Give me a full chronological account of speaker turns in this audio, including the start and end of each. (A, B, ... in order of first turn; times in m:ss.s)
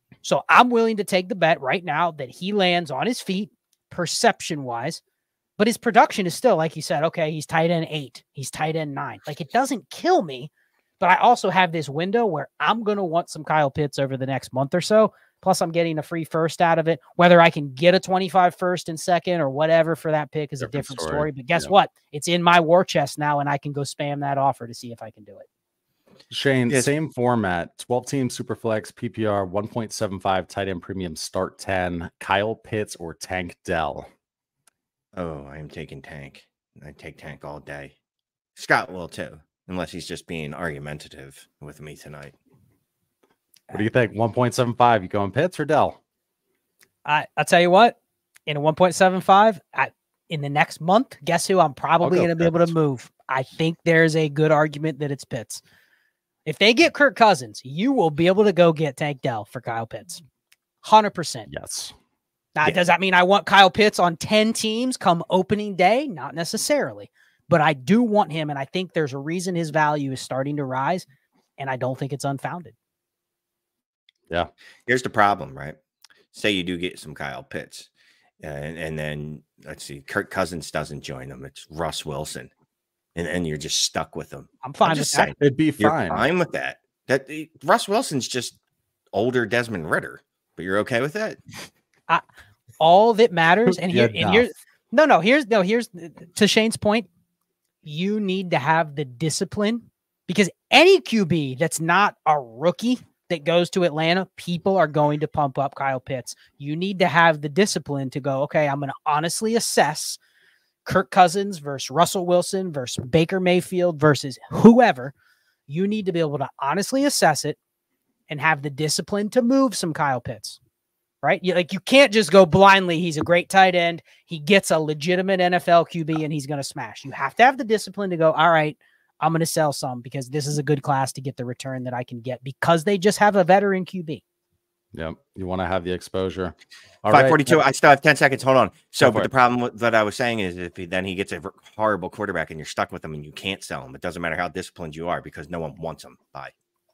0:00.2-0:05.0 A
0:05.6-0:25.5 A
0:20.6-0:21.7 B
0:26.3-0:34.1 B
0:35.2-0:38.0 C
0:38.6-0:42.3 C
0:43.7-0:46.0 B
0:47.0-0:48.0 A
0:48.5-0:55.6 A
0:52.0-0:52.7 B
0:56.5-1:00.2 A
1:00.8-1:01.5 A
1:01.5-1:01.9 B
1:02.6-1:11.1 A
1:11.6-1:12.8 A
1:14.9-1:15.8 C
1:16.3-1:17.9 C
1:18.4-1:22.5 C
1:23.2-1:28.6 C
1:24.6-1:25.3 A
1:25.4-1:26.2 B
1:29.1-1:31.4 C
1:32.8-1:37.1 A
1:33.8-1:34.5 B
1:37.8-1:50.2 A
1:50.9-1:55.1 A
1:55.7-1:57.6 A
1:58.3-2:00.6 A
2:01.2-2:14.2 A
2:14.9-2:17.6 B
2:17.1-2:26.5 C
2:19.0-2:19.3 B